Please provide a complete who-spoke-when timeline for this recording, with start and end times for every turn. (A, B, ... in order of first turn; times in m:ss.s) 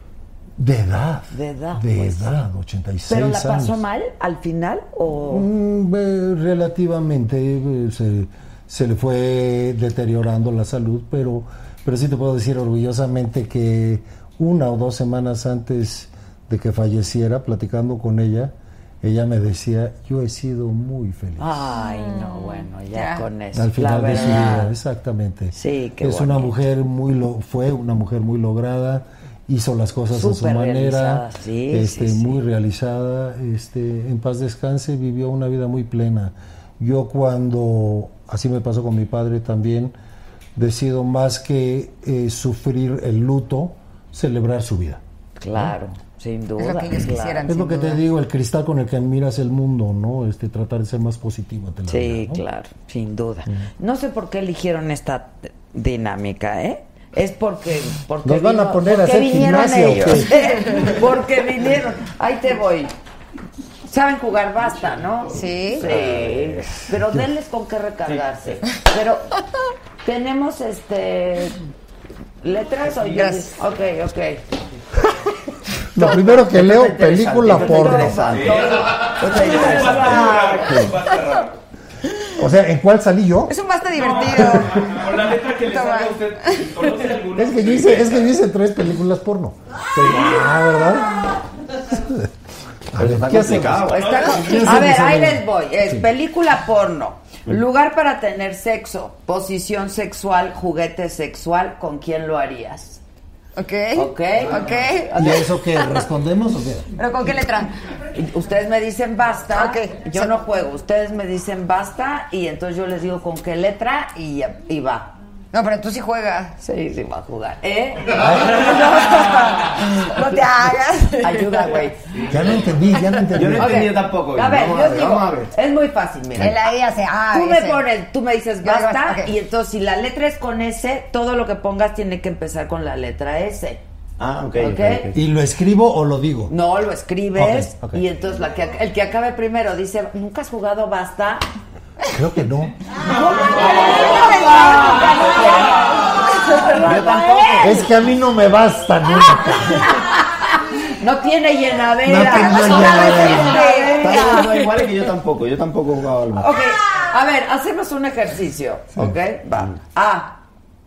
0:00.6-0:03.8 A
0:01.3-0:02.4 B
0:03.1-0:05.5 B
0:05.3-0:21.7 A
0:21.4-0:24.7 B
0:21.7-0:23.2 C
0:23.5-0:39.9 A
0:25.5-0:26.5 B
0:30.1-0:32.4 B
0:40.6-0:45.0 A
0:45.4-0:47.5 B
0:46.6-0:48.0 C
0:47.4-0:52.4 A
0:51.9-1:02.9 B
0:58.2-1:00.4 A
1:00.5-1:00.9 C
1:03.8-1:09.3 B
1:05.3-1:05.9 C
1:05.9-1:06.4 D
1:06.8-1:07.2 A
1:10.0-1:11.6 B
1:12.4-1:14.4 B
1:13.0-1:13.5 C
1:15.9-1:18.4 A
1:16.1-1:20.2 D
1:17.4-1:20.9 B
1:18.3-1:21.6 E
1:22.4-1:23.5 A
1:23.5-1:25.0 C
1:24.0-1:28.3 E
1:24.3-1:25.0 A
1:25.6-1:26.8 C
1:27.3-1:31.3 A
1:32.9-1:36.1 A
1:33.0-1:34.4 D
1:33.8-1:43.0 B
1:33.9-1:34.8 E
1:43.6-1:46.0 C
1:43.9-1:45.5 B
1:45.1-1:46.9 A
1:46.9-1:47.7 C
1:48.1-1:55.1 B
1:49.5-1:50.4 C
1:55.5-1:56.6 C
1:56.6-2:00.4 B
1:59.7-2:01.8 C
2:01.2-2:02.0 B
2:02.3-2:03.9 A
2:03.3-2:05.5 D
2:03.4-2:06.7 B
2:06.4-2:07.8 C
2:07.3-2:13.8 B
2:08.6-2:09.3 C
2:14.2-2:15.2 D
2:14.6-2:15.1 B
2:15.1-2:16.5 A
2:16.5-2:21.5 B
2:17.3-2:18.0 A
2:22.1-2:22.8 A
2:23.0-2:27.9 B
2:23.4-2:25.4 C
2:26.3-2:26.6 C
2:26.8-2:27.8 D
2:27.6-2:29.9 A
2:29.6-2:34.8 B
2:32.0-2:33.6 A
2:32.2-2:34.5 C
2:34.0-2:36.6 D
2:36.3-2:40.4 B